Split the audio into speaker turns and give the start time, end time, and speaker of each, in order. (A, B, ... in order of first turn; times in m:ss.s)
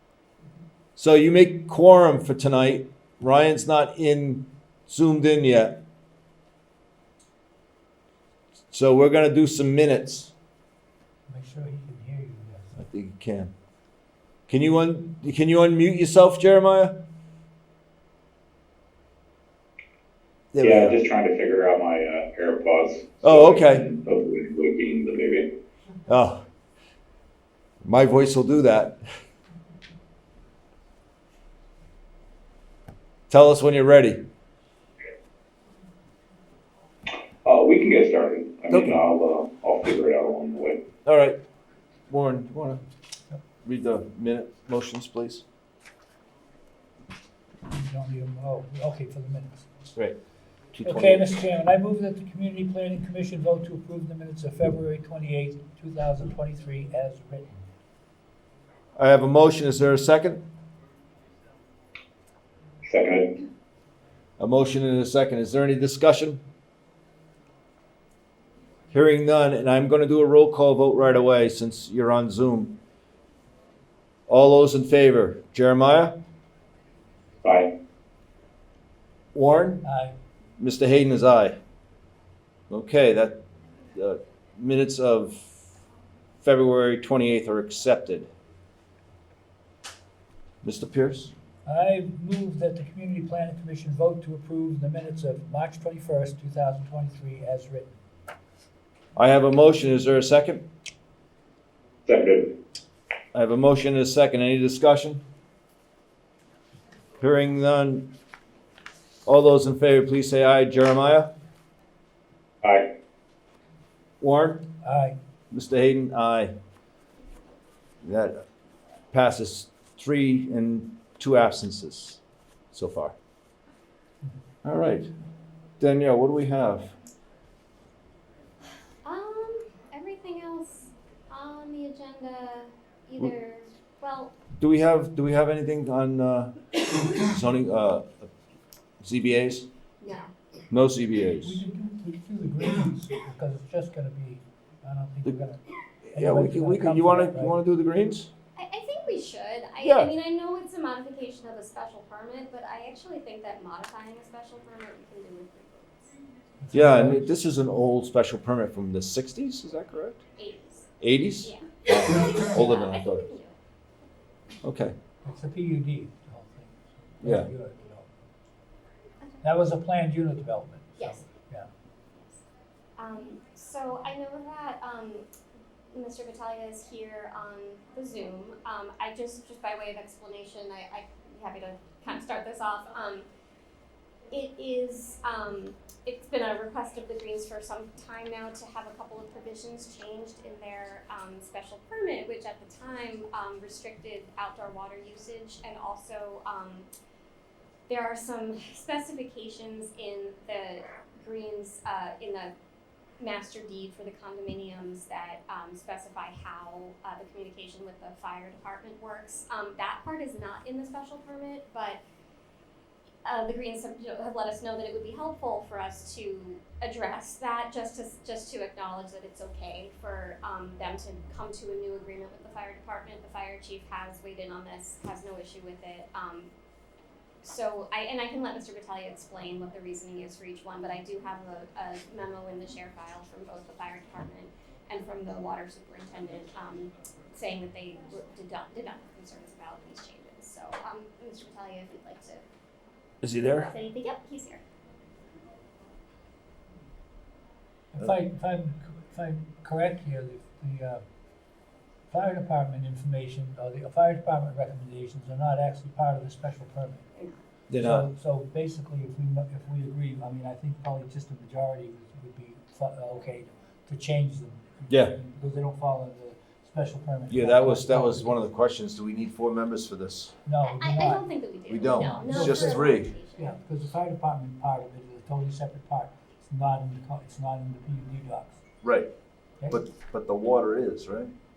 0:01.0-0:05.8 A
0:08.7-0:10.3 A
0:11.3-0:12.8 B
0:12.8-0:13.5 A
0:14.5-0:17.0 A
0:20.5-0:21.0 A
0:20.6-0:25.5 C
0:23.2-0:23.8 A
0:26.1-0:26.4 A
0:27.8-0:29.0 A
0:33.3-0:34.2 A
0:37.4-0:40.8 C
0:38.7-0:39.0 A
0:41.0-0:41.4 A
0:42.1-0:42.8 A
0:43.6-0:45.4 A
0:47.7-0:49.7 B
0:50.7-0:51.3 A
0:50.8-0:57.6 B
0:59.0-1:00.4 A
1:02.8-1:03.4 C
1:04.4-1:06.4 A
1:08.9-1:12.7 A
1:14.3-1:16.2 A
1:17.4-1:17.7 C
1:19.3-1:19.8 A
1:19.8-1:20.2 B
1:20.6-1:21.6 A
1:22.7-1:23.4 A
1:24.0-1:25.6 A
1:26.4-1:28.3 A
1:30.6-1:31.3 A
1:31.6-1:38.0 B
1:39.2-1:40.6 A
1:42.0-1:42.5 C
1:43.3-1:45.2 A
1:47.2-1:48.1 A
1:49.2-1:51.3 A
1:52.6-1:52.9 C
1:54.2-1:54.6 A
1:54.8-1:55.2 B
1:55.5-1:56.5 A
1:58.0-1:58.3 A
1:59.1-2:02.2 A
2:02.7-2:03.1 A
2:04.6-2:05.1 A
2:05.8-2:06.9 A
2:09.0-2:14.3 D
2:14.6-2:16.5 A
2:17.1-2:18.3 A
2:19.0-2:19.7 A
2:20.0-2:20.3 D
2:20.7-2:21.6 A
2:21.4-2:25.6 B
2:26.1-2:28.3 A
2:26.1-2:27.6 B
2:28.6-2:36.1 D
2:29.8-2:30.1 A
2:36.6-2:37.3 B
2:36.7-2:40.2 A
2:40.4-2:40.9 D
2:41.0-2:43.2 A
2:41.4-2:43.6 D
2:44.6-2:44.9 A
2:45.2-2:48.1 B
2:47.2-2:47.5 A
2:49.4-2:51.7 B
2:51.0-2:51.2 D
2:52.1-2:52.4 D
2:53.0-2:55.3 D
2:55.9-3:03.2 D
3:04.3-3:16.9 D
3:17.9-3:22.5 D
3:23.2-3:32.0 D
3:33.2-3:46.5 D
3:47.4-4:02.4 D
4:03.2-4:03.7 A
4:03.6-4:04.6 D
4:07.9-4:11.0 B
4:12.1-4:17.0 B
4:17.2-4:17.4 D
4:17.7-4:18.1 A
4:17.8-4:28.4 B
4:24.9-4:25.1 A
4:27.3-4:30.3 A
4:30.4-4:31.2 B
4:30.7-4:33.6 D
4:31.7-4:33.1 A
4:32.0-4:38.6 B
4:38.8-4:39.1 A
4:39.7-4:41.3 A